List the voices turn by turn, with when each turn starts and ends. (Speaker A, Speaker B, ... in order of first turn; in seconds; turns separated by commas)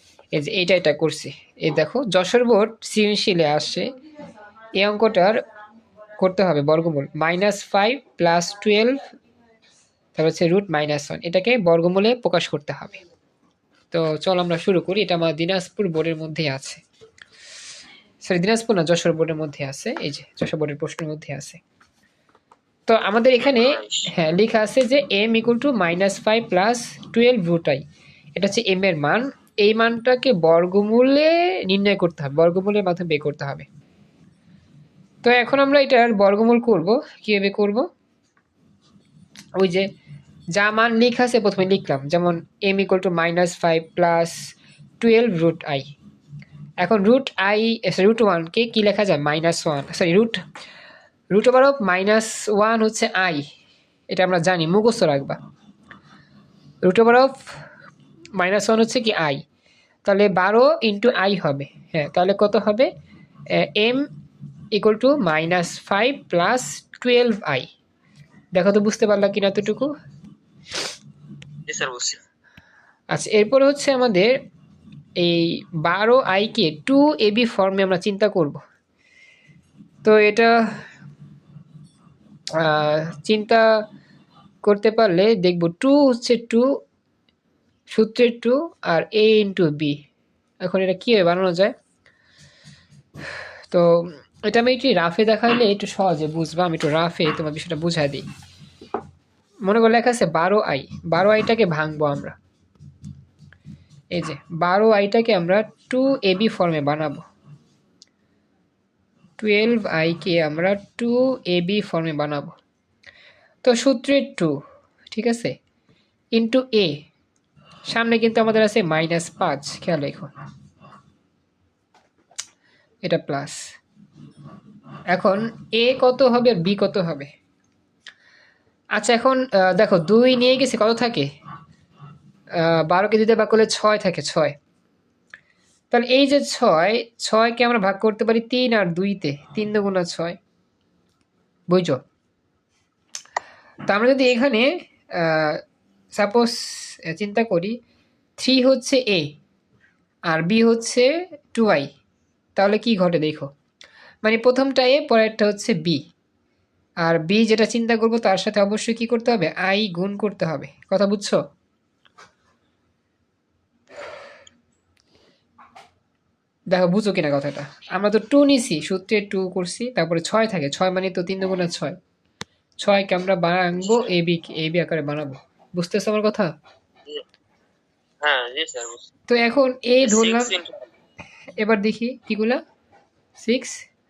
Speaker A: 0.3-3.9, Speaker A: 4.8-5.4, Speaker A: 6.2-9.1, Speaker A: 10.2-13.0, Speaker A: 13.9-16.8, Speaker A: 18.2-21.6, Speaker A: 22.9-27.8, Speaker B: 23.4-24.1, Speaker A: 28.4-33.7, Speaker A: 35.2-37.9, Speaker A: 39.6-39.9, Speaker A: 40.5-44.4, Speaker A: 45.0-45.9, Speaker A: 46.8-50.4, Speaker A: 51.3-53.5, Speaker A: 54.1-55.4, Speaker A: 56.8-57.4, Speaker A: 58.4-59.4, Speaker A: 60.0-62.9, Speaker A: 63.6-64.0, Speaker A: 64.7-67.7, Speaker A: 68.5-69.9, Speaker B: 71.7-72.2, Speaker A: 73.1-74.3, Speaker A: 75.2-78.6, Speaker A: 80.0-80.5, Speaker A: 82.6-83.6, Speaker A: 84.6-86.7, Speaker A: 87.9-90.0, Speaker A: 90.6-91.7, Speaker A: 93.7-98.2, Speaker A: 99.7-102.3, Speaker A: 104.1-107.2, Speaker A: 109.4-112.5, Speaker A: 113.6-114.5, Speaker A: 115.1-115.5, Speaker A: 116.3-116.9, Speaker A: 117.9-120.3, Speaker A: 123.0-123.6, Speaker A: 125.1-127.3, Speaker A: 128.9-131.3, Speaker A: 132.6-134.5, Speaker A: 135.9-140.4, Speaker A: 141.7-142.0, Speaker A: 143.9-145.6, Speaker A: 146.2-147.7, Speaker A: 148.4-149.3, Speaker A: 150.3-151.9, Speaker A: 152.6-153.5, Speaker A: 154.2-156.0, Speaker A: 157.0-161.4, Speaker A: 166.7-172.0, Speaker A: 172.8-176.5, Speaker B: 178.2-179.1, Speaker A: 179.3-180.5, Speaker B: 180.0-180.8, Speaker A: 181.5-182.6, Speaker A: 183.4-183.8